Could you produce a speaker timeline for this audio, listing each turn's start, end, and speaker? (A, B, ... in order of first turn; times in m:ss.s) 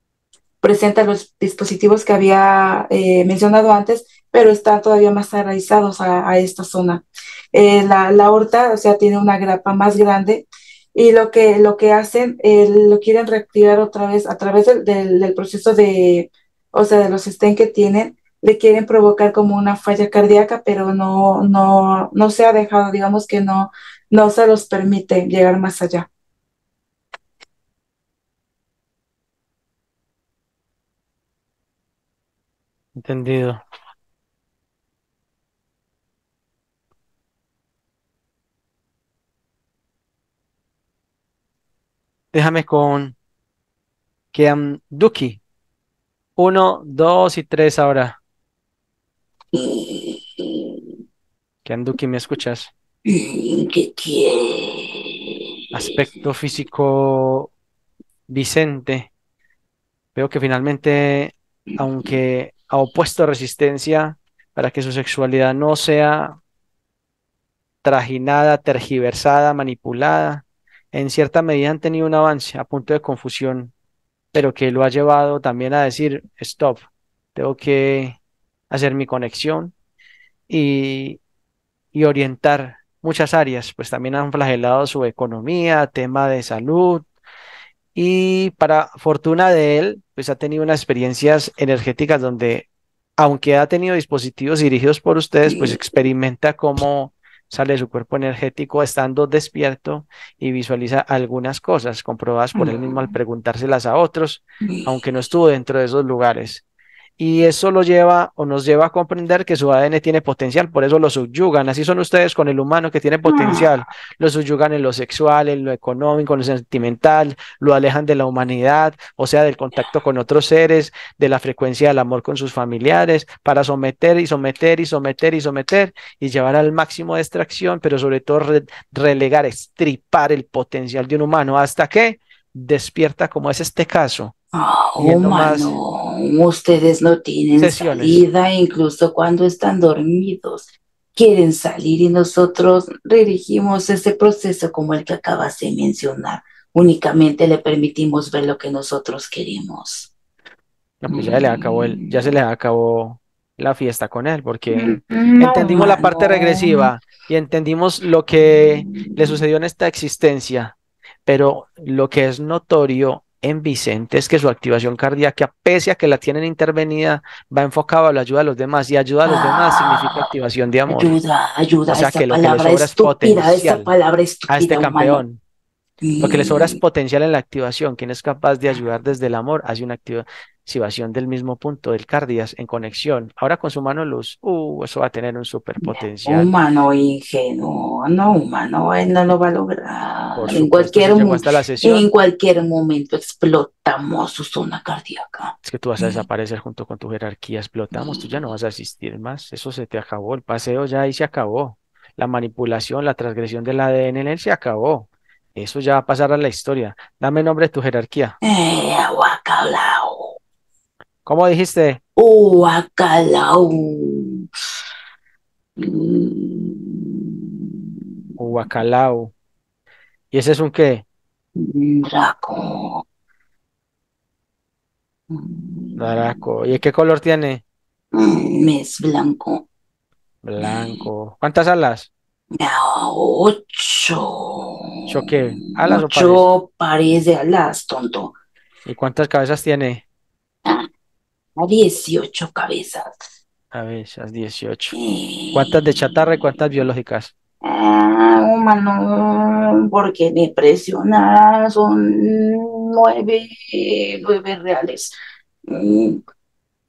0:00.6-0:26.1 A
0:32.9-0:33.6 B
0:42.3-0:43.2 B
0:44.3-0:45.4 B
0:46.4-0:48.2 B
0:49.5-0:50.8 C
0:51.6-0:52.7 B
0:53.0-0:55.4 C
0:55.7-0:57.5 B
0:58.3-0:59.1 B
1:00.1-1:06.4 B
1:01.7-1:02.1 C
1:07.8-1:13.7 B
1:14.3-1:16.8 B
1:17.3-1:18.2 B
1:18.7-1:19.7 B
1:20.5-1:21.2 B
1:21.9-1:27.0 B
1:27.9-1:32.6 B
1:33.2-1:46.6 B
1:35.4-1:35.8 C
1:42.5-1:43.1 C
1:47.2-2:14.3 B
1:53.2-1:53.7 C
2:14.5-2:30.1 C
2:15.0-2:15.7 B
2:17.6-2:18.2 B
2:31.0-2:40.7 B
2:31.1-2:32.3 C
2:34.7-2:36.9 C
2:38.4-2:39.4 C
2:41.2-2:51.1 B
2:49.2-2:50.3 C
2:50.9-2:55.2 C
2:51.9-2:53.9 B
2:54.5-2:55.4 B
2:56.0-2:56.8 C
2:56.2-3:06.5 B
3:05.8-3:16.2 C
3:10.3-3:12.1 B
3:15.6-3:28.4 B
3:17.9-3:18.4 C
3:28.4-3:30.4 C
3:31.2-3:32.0 B
3:32.2-3:34.4 C
3:35.8-3:37.2 C
3:38.4-3:39.3 B
3:40.3-3:41.0 B
3:41.6-3:43.0 C
3:45.3-3:46.5 C
3:46.0-3:47.6 B
3:48.1-3:49.6 C
3:50.4-3:52.1 B
3:50.6-3:51.0 C
3:52.5-3:58.3 C
3:55.1-3:56.4 B
3:58.8-4:00.0 B
4:01.6-4:03.3 C
4:03.7-4:04.9 B
4:04.9-4:06.6 C
4:05.5-4:07.3 B
4:07.6-4:15.1 C
4:15.7-4:16.2 C